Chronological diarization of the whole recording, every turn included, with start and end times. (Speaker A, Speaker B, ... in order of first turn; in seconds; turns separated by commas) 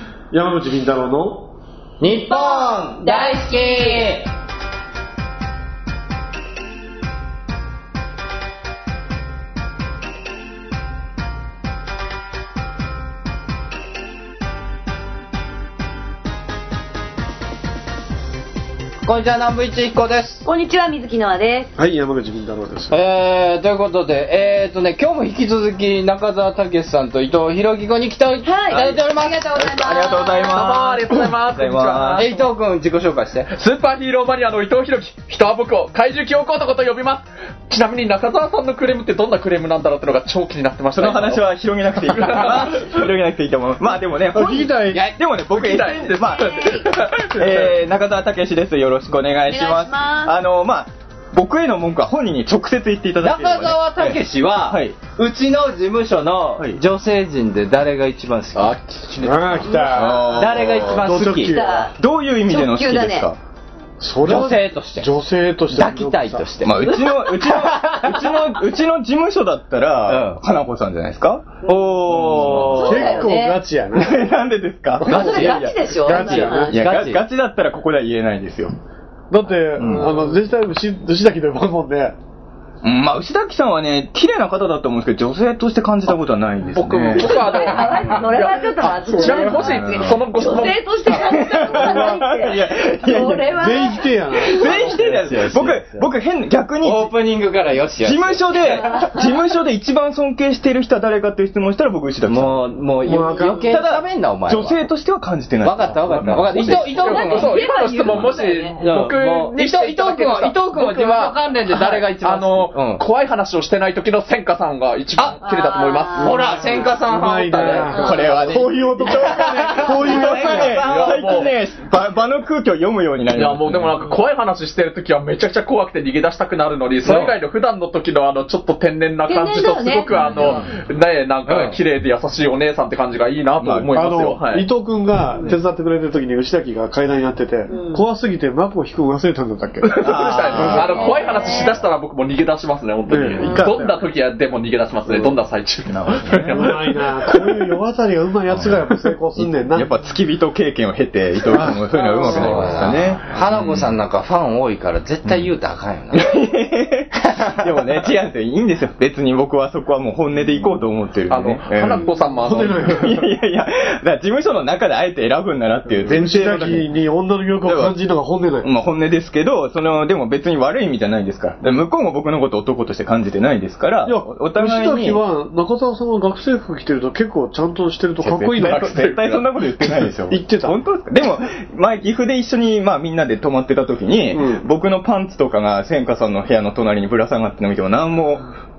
Speaker A: 0.3-1.5, Speaker B: 2.0-4.3, Speaker C: 2.3-4.0, Speaker B: 19.0-20.4, Speaker C: 20.4-21.7, Speaker A: 21.8-23.0, Speaker B: 22.9-29.5, Speaker C: 28.4-30.6, Speaker D: 28.7-29.0, Speaker D: 29.5-32.3, Speaker E: 30.5-32.5, Speaker B: 32.1-33.5, Speaker E: 33.5-43.1, Speaker D: 41.0-55.0, Speaker A: 44.3-45.0, Speaker B: 44.8-45.2, Speaker E: 45.5-47.7, Speaker C: 46.4-46.8, Speaker C: 49.5-50.4, Speaker B: 53.2-61.6, Speaker A: 59.2-61.9, Speaker C: 59.6-59.9, Speaker D: 59.9-61.1, Speaker C: 61.4-62.0, Speaker D: 61.9-63.4, Speaker C: 62.5-63.3, Speaker A: 64.0-66.5, Speaker B: 64.2-65.1, Speaker B: 65.7-68.3, Speaker D: 66.6-72.9, Speaker B: 70.1-70.4, Speaker B: 71.6-73.3, Speaker A: 72.5-74.3, Speaker C: 72.7-73.6, Speaker D: 74.0-75.9, Speaker A: 75.0-75.5, Speaker C: 75.1-76.7, Speaker B: 75.1-77.2, Speaker A: 76.0-76.7, Speaker D: 76.7-78.7, Speaker A: 79.3-82.2, Speaker D: 79.8-80.1, Speaker D: 82.8-87.4, Speaker E: 86.7-91.1, Speaker C: 87.2-94.7, Speaker D: 89.4-90.3, Speaker D: 91.4-93.9, Speaker A: 91.7-92.2, Speaker A: 93.5-94.7, Speaker D: 94.4-97.2, Speaker B: 94.7-96.1, Speaker B: 96.8-98.8, Speaker D: 98.0-102.8, Speaker B: 102.2-104.8, Speaker A: 103.0-103.7, Speaker C: 103.1-103.6, Speaker D: 103.7-107.0, Speaker B: 105.6-113.0, Speaker E: 106.7-118.3, Speaker C: 107.0-108.8, Speaker B: 115.2-115.5, Speaker C: 115.4-116.4, Speaker B: 116.1-118.3, Speaker A: 117.0-120.9, Speaker C: 117.9-118.2, Speaker D: 117.9-124.0, Speaker B: 119.6-120.8, Speaker E: 120.5-121.5, Speaker E: 123.3-134.7, Speaker B: 127.0-127.3, Speaker C: 129.3-130.6, Speaker D: 130.2-130.5, Speaker B: 131.4-131.8, Speaker D: 133.6-133.9, Speaker A: 133.9-141.2, Speaker C: 137.7-138.0, Speaker E: 139.8-147.4, Speaker D: 140.0-141.7, Speaker C: 140.9-141.7, Speaker A: 143.1-143.9, Speaker A: 145.1-145.3, Speaker D: 145.9-146.7, Speaker A: 146.5-149.9, Speaker D: 148.5-148.8, Speaker D: 149.4-154.0, Speaker A: 151.5-151.8, Speaker C: 151.9-152.6, Speaker B: 152.0-156.3, Speaker A: 152.4-152.9, Speaker D: 155.2-155.5, Speaker D: 156.1-166.9, Speaker B: 157.3-158.0, Speaker E: 161.3-163.0, Speaker A: 162.4-163.3, Speaker A: 166.0-168.7, Speaker D: 167.6-167.9, Speaker D: 168.6-175.2, Speaker A: 174.0-179.0, Speaker D: 178.2-188.5, Speaker E: 178.5-180.1, Speaker A: 180.3-180.8, Speaker A: 184.3-184.7